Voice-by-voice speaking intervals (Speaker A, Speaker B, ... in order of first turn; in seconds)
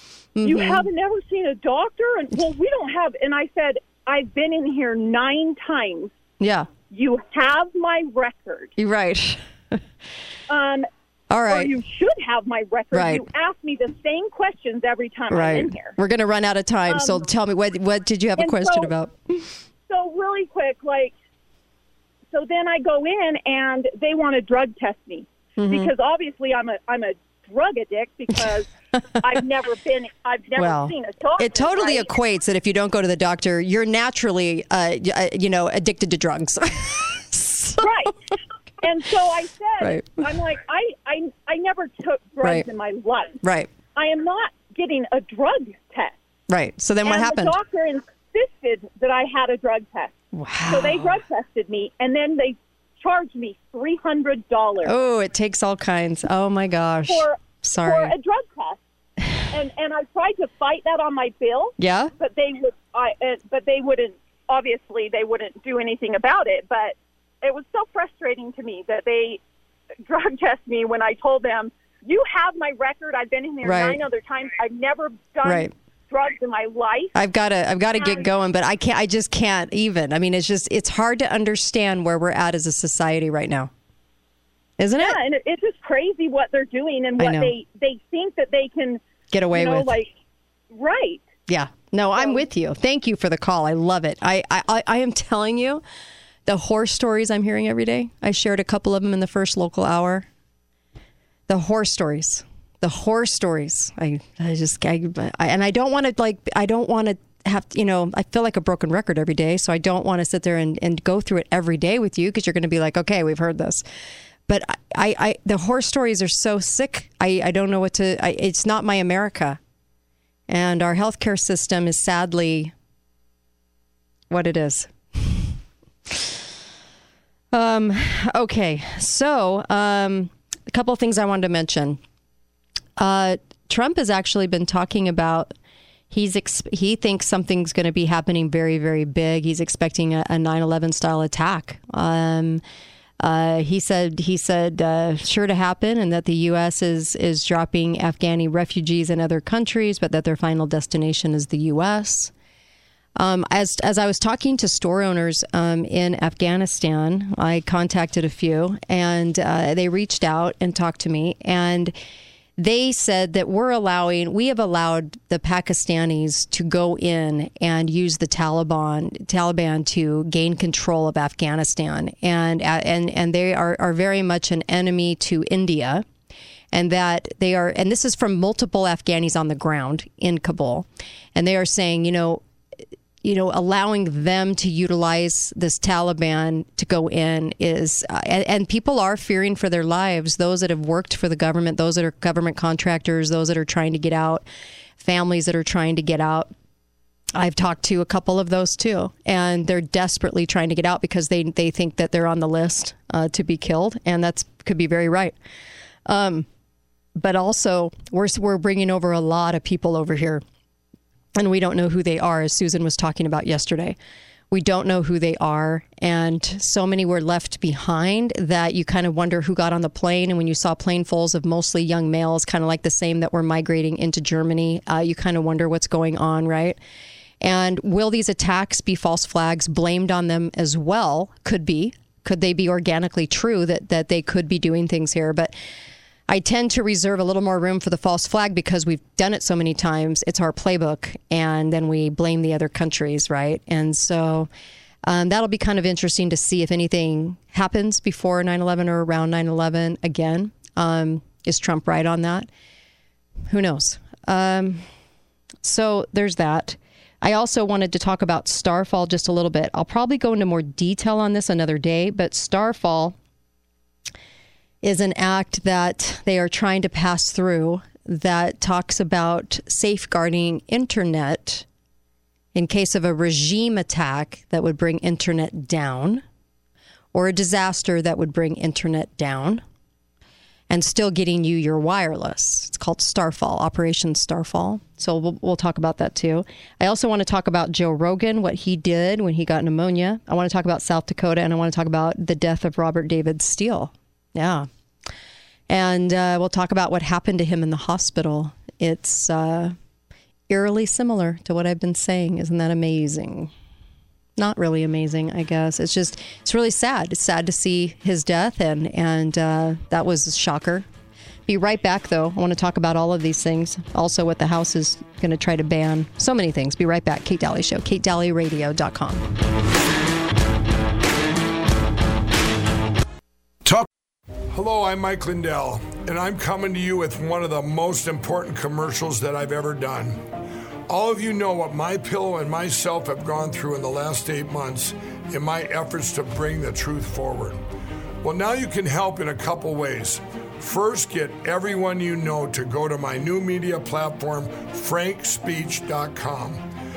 Speaker A: 0.3-0.9, 6.4-6.7, 8.8-9.8, 11.3-11.7, 12.9-13.2, 15.3-19.5, 25.6-25.9, 30.6-37.9, 39.8-40.2, 43.4-43.7, 46.5-47.6, 50.3-51.2, 54.8-58.1, 61.8-62.1, 73.6-74.0, 75.4-75.7, 77.1-83.7, 84.8-85.2, 87.2-87.5, 89.3-90.0, 91.5-95.8, 96.5-100.3, 101.5-113.8, 114.5-119.6, 120.5-122.7, 124.3-126.4, 127.5-132.0, 133.0-135.5, 136.1-142.6, 143.2-152.3, 153.2-161.9, 162.6-176.1, 176.7-182.4, 183.2-194.4, 195.0-196.5, 197.3-205.3, 206.1-206.5, 207.2-210.4, 211.3-214.0, 214.5-226.8, 227.4-235.5, 236.3-244.5, 245.0-252.5, 253.5-254.8, 255.6-263.1, 264.8-271.6, 272.5-276.2, 277.1-279.6, 280.7-294.7, 295.7-299.7, 300.5-303.5, 304.4-310.9, 311.5-319.2
Speaker B: 0.4-6.1, 6.9-8.7, 10.5-10.8, 11.5-15.9, 16.9-17.2, 18.4-18.9, 19.9-21.1, 22.3-32.1, 37.8-38.2, 38.8-43.4, 43.9-46.1, 47.0-50.1, 50.7-54.9, 57.1-58.8, 59.5-69.4, 70.0-77.1, 78.0-78.2, 85.0-89.0, 89.5-90.1, 90.7-91.2
Speaker C: 324.5-330.2, 330.9-337.6, 338.2-346.6